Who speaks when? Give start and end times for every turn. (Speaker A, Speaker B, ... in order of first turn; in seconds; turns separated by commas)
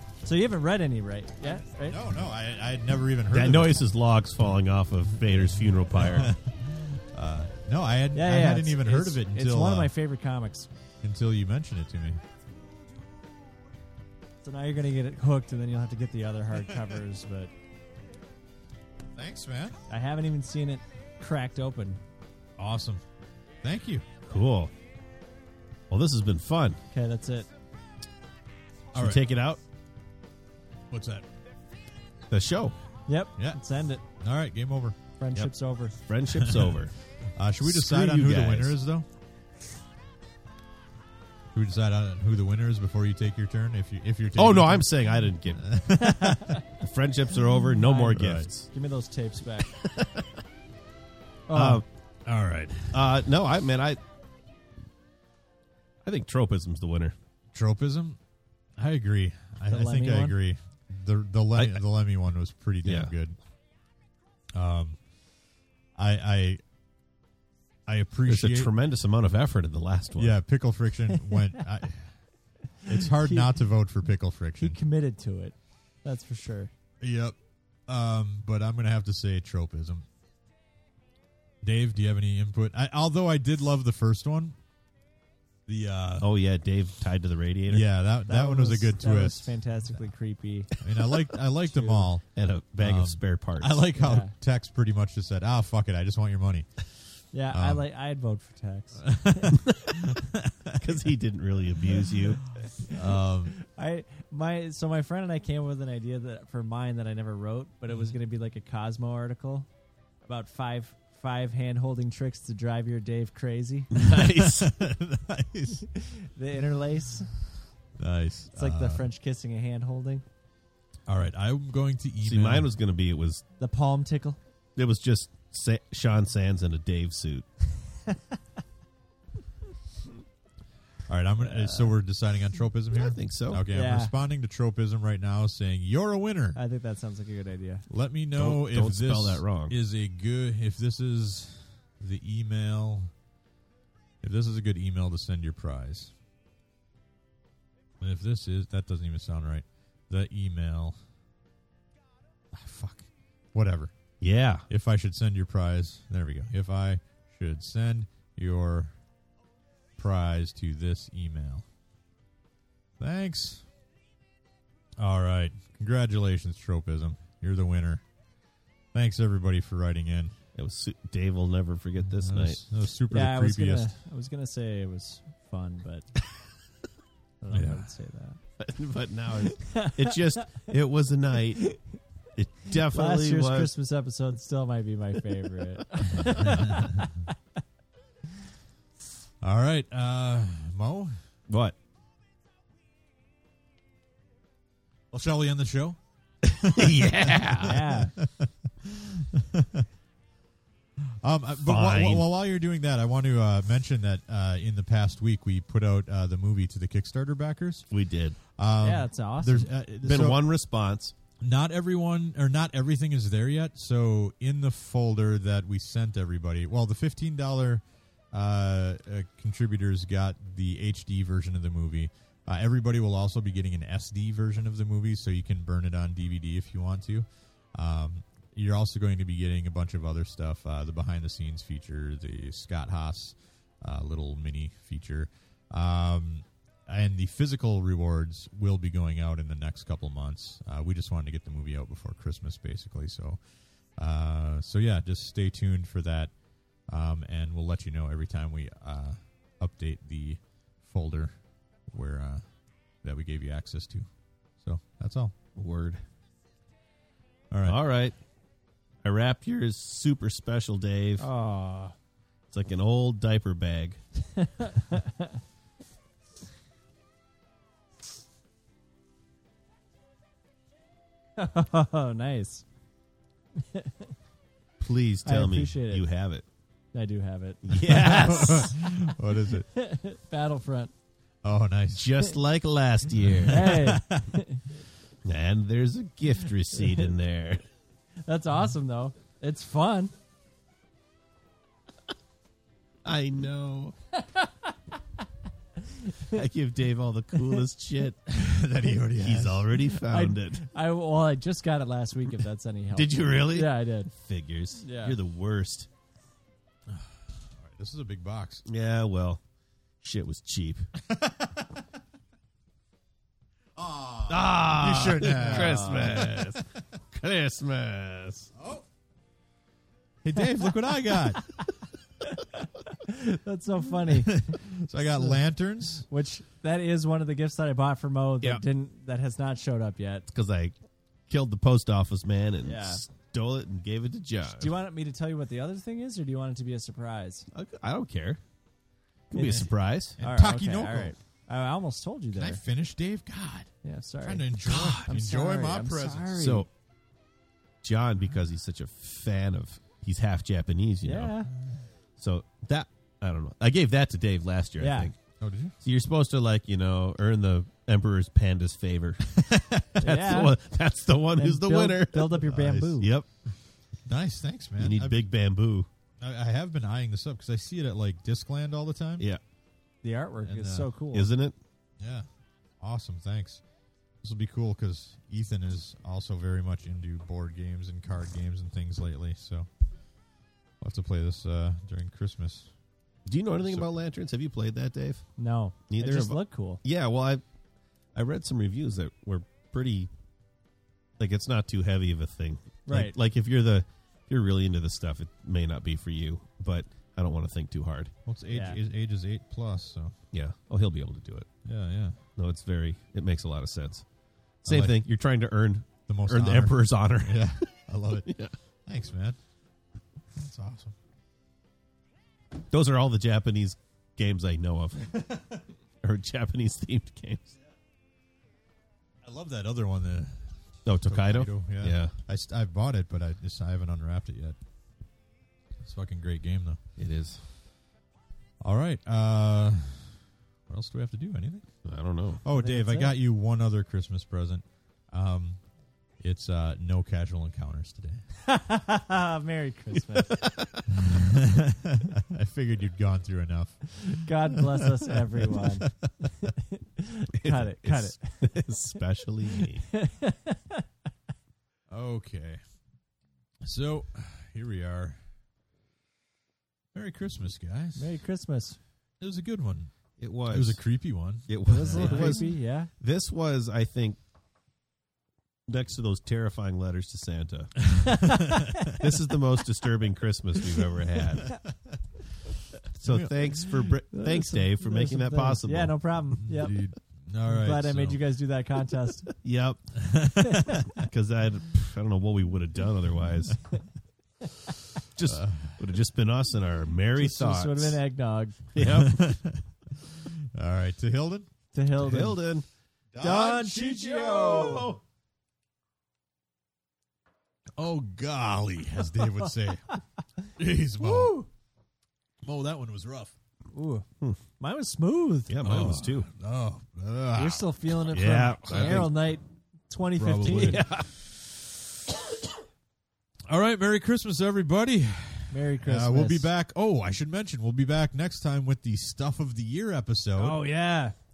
Speaker A: 0.2-2.0, Speaker B: 1.8-3.8, Speaker C: 3.3-6.3, Speaker B: 5.9-9.9, Speaker A: 8.1-10.7, Speaker B: 11.0-12.2, Speaker A: 14.4-17.5, Speaker B: 16.6-16.9, Speaker B: 19.1-19.8, Speaker A: 19.9-22.0, Speaker B: 22.6-23.0, Speaker B: 23.6-24.1, Speaker C: 24.3-24.7, Speaker C: 25.9-26.8, Speaker A: 26.9-27.5, Speaker C: 28.9-29.6, Speaker B: 28.9-29.3, Speaker B: 30.9-31.3, Speaker C: 32.3-32.8, Speaker A: 33.1-34.0, Speaker B: 34.2-35.0, Speaker A: 35.2-36.0, Speaker C: 36.1-37.0, Speaker B: 36.3-36.8, Speaker B: 37.4-39.1, Speaker C: 37.6-38.8, Speaker B: 41.5-46.6, Speaker C: 44.4-45.8, Speaker C: 46.8-48.7, Speaker A: 47.8-49.7, Speaker B: 48.1-48.5, Speaker C: 49.8-50.3, Speaker A: 51.5-51.8, Speaker C: 51.5-51.9, Speaker B: 52.2-53.2, Speaker C: 52.9-54.0, Speaker C: 56.0-57.1, Speaker B: 57.5-58.2, Speaker B: 58.8-63.4, Speaker A: 59.7-60.4, Speaker C: 61.6-61.8, Speaker C: 62.8-63.1, Speaker B: 64.5-65.0, Speaker B: 66.0-66.6, Speaker B: 67.9-68.7, Speaker C: 68.3-70.4, Speaker B: 70.2-72.2, Speaker A: 72.8-73.5, Speaker B: 72.9-74.8, Speaker A: 74.6-76.7, Speaker B: 77.0-77.4, Speaker B: 77.9-80.1, Speaker B: 81.6-84.6, Speaker B: 85.7-86.3, Speaker C: 86.2-87.9, Speaker B: 87.7-89.6, Speaker A: 88.3-90.7, Speaker B: 90.8-92.3, Speaker A: 91.7-92.1, Speaker C: 92.3-93.8, Speaker B: 92.8-96.7, Speaker A: 94.0-94.3, Speaker A: 97.3-99.6, Speaker B: 97.5-97.8, Speaker B: 99.0-101.0, Speaker C: 100.8-102.5, Speaker B: 102.8-103.5, Speaker A: 103.6-109.7, Speaker A: 110.3-114.0, Speaker C: 113.9-114.7, Speaker B: 114.1-115.9, Speaker A: 115.9-117.3, Speaker B: 118.0-119.0, Speaker A: 118.5-120.2, Speaker B: 121.1-122.7, Speaker C: 122.2-123.4, Speaker A: 123.6-124.4, Speaker C: 124.8-127.5, Speaker B: 131.1-136.6, Speaker A: 131.4-131.9, Speaker C: 132.9-133.6, Speaker A: 133.7-134.1, Speaker A: 136.6-137.9, Speaker B: 137.9-143.1, Speaker C: 138.4-139.8, Speaker B: 144.2-146.1, Speaker B: 148.0-151.0, Speaker B: 152.5-153.9, Speaker C: 154.2-154.7, Speaker B: 154.7-158.9, Speaker B: 160.0-161.7, Speaker B: 163.0-163.7, Speaker B: 165.0-168.0, Speaker B: 168.9-170.4, Speaker C: 170.6-172.6, Speaker B: 172.1-173.9, Speaker A: 173.1-176.1, Speaker A: 177.4-178.4, Speaker B: 177.5-177.8, Speaker C: 178.6-181.7, Speaker A: 179.5-180.6, Speaker C: 182.4-183.7, Speaker A: 182.7-187.3, Speaker B: 186.2-187.2, Speaker B: 189.4-191.2, Speaker C: 191.5-191.8, Speaker B: 195.1-196.0, Speaker C: 196.4-197.9, Speaker B: 196.5-199.9, Speaker A: 197.6-198.2, Speaker B: 201.0-207.9, Speaker C: 201.7-202.3, Speaker C: 207.9-208.4, Speaker B: 208.6-210.4, Speaker A: 208.8-209.7, Speaker C: 210.0-211.1, Speaker B: 211.4-243.4, Speaker B: 244.0-246.3, Speaker B: 246.9-251.3, Speaker B: 251.9-252.4, Speaker B: 253.0-254.1, Speaker B: 254.6-255.3, Speaker C: 255.6-256.0, Speaker B: 257.5-257.8, Speaker C: 257.7-258.2, Speaker C: 259.0-261.3, Speaker A: 261.2-261.9, Speaker C: 262.5-264.0, Speaker A: 264.4-265.4, Speaker A: 271.4-272.6, Speaker A: 273.6-274.1, Speaker C: 274.8-276.4, Speaker A: 275.2-276.1, Speaker A: 276.9-279.1, Speaker C: 277.6-278.7, Speaker B: 277.9-279.7, Speaker A: 279.7-280.9, Speaker B: 281.4-282.1, Speaker C: 281.9-283.9, Speaker B: 283.2-284.3, Speaker A: 283.5-284.7, Speaker C: 285.2-287.6, Speaker A: 288.2-290.1, Speaker C: 293.1-293.9, Speaker A: 294.2-294.5, Speaker A: 295.9-296.4, Speaker C: 296.3-298.2, Speaker B: 298.3-299.8, Speaker C: 299.2-300.6, Speaker A: 300.1-304.1, Speaker C: 302.9-305.9, Speaker A: 304.8-305.2, Speaker B: 306.9-308.6, Speaker C: 308.7-309.4, Speaker C: 310.0-310.9, Speaker B: 311.0-311.9, Speaker B: 313.8-316.6, Speaker C: 314.3-318.5, Speaker A: 315.4-316.3, Speaker B: 318.5-318.9, Speaker B: 320.2-321.4, Speaker A: 322.2-324.6, Speaker B: 324.1-326.1, Speaker A: 326.1-330.3, Speaker C: 330.3-330.7, Speaker C: 331.3-334.7, Speaker A: 332.6-333.0, Speaker A: 334.5-337.5, Speaker C: 337.5-338.4, Speaker C: 339.3-340.2, Speaker A: 339.3-342.6, Speaker B: 340.2-341.1, Speaker B: 342.4-346.4, Speaker A: 343.8-346.7, Speaker C: 346.4-346.7, Speaker C: 347.8-351.4, Speaker A: 351.0-351.5, Speaker B: 351.5-351.9, Speaker C: 352.2-355.2, Speaker A: 354.8-355.1, Speaker B: 355.4-355.8, Speaker C: 355.8-359.4, Speaker B: 359.4-360.0, Speaker A: 360.0-360.6, Speaker C: 360.0-362.5, Speaker A: 361.4-363.1, Speaker B: 362.5-363.0, Speaker C: 363.0-363.3, Speaker B: 364.1-365.2, Speaker C: 364.8-365.9, Speaker B: 366.2-369.3, Speaker A: 370.0-371.3, Speaker B: 370.4-370.9, Speaker C: 371.1-371.6, Speaker B: 372.0-372.3, Speaker B: 372.8-373.6, Speaker B: 374.2-379.7, Speaker B: 380.8-382.7, Speaker C: 383.3-385.2, Speaker B: 383.6-383.9, Speaker A: 385.4-386.8, Speaker C: 385.9-387.4, Speaker C: 388.1-390.1, Speaker C: 391.2-398.1, Speaker A: 392.9-393.1, Speaker B: 398.3-400.1, Speaker A: 398.5-398.8, Speaker C: 400.3-401.5, Speaker B: 401.7-402.2, Speaker C: 402.4-404.1, Speaker C: 404.6-407.7, Speaker B: 404.7-405.0, Speaker B: 406.1-408.3, Speaker C: 408.3-408.5, Speaker B: 408.9-409.4, Speaker B: 410.3-411.0, Speaker C: 412.7-417.6, Speaker B: 419.2-424.6, Speaker C: 420.9-422.2, Speaker B: 425.8-426.8, Speaker C: 427.0-427.4, Speaker B: 428.6-431.7, Speaker C: 431.9-432.4, Speaker B: 432.4-435.6, Speaker A: 432.5-433.1, Speaker B: 436.2-438.2, Speaker A: 438.4-440.6, Speaker C: 440.1-440.8, Speaker B: 440.9-446.1, Speaker A: 444.1-448.6, Speaker C: 447.4-449.9, Speaker A: 449.9-450.8, Speaker B: 451.9-452.6, Speaker B: 453.6-455.2, Speaker B: 456.9-458.2, Speaker A: 458.0-458.8, Speaker B: 459.2-459.9, Speaker C: 460.2-460.9, Speaker B: 460.5-462.5, Speaker C: 461.5-464.2, Speaker A: 461.7-462.9, Speaker C: 465.7-467.9, Speaker B: 467.9-468.9, Speaker A: 468.1-469.1, Speaker C: 468.9-471.6, Speaker B: 471.7-471.9, Speaker C: 472.9-476.0, Speaker B: 473.1-474.0, Speaker A: 474.1-476.8, Speaker B: 476.4-478.2, Speaker A: 477.5-479.3, Speaker C: 479.4-480.0, Speaker B: 480.0-480.9, Speaker C: 480.9-483.6, Speaker C: 485.1-488.0, Speaker B: 485.2-485.9, Speaker A: 487.2-489.0, Speaker C: 488.7-489.3, Speaker B: 488.8-491.5, Speaker A: 491.7-492.4, Speaker C: 492.0-492.7, Speaker B: 493.1-494.9, Speaker A: 493.2-494.9, Speaker C: 493.2-495.0, Speaker B: 497.8-500.0, Speaker B: 500.6-501.4, Speaker A: 501.0-501.5, Speaker B: 502.4-503.3, Speaker A: 503.7-504.1, Speaker A: 504.6-505.7, Speaker C: 505.5-506.3, Speaker B: 505.6-507.7, Speaker A: 507.4-510.8, Speaker C: 508.1-509.1, Speaker B: 508.7-509.0, Speaker B: 510.2-510.9, Speaker C: 510.5-511.1, Speaker B: 513.5-520.6, Speaker A: 515.5-516.5, Speaker C: 520.4-521.1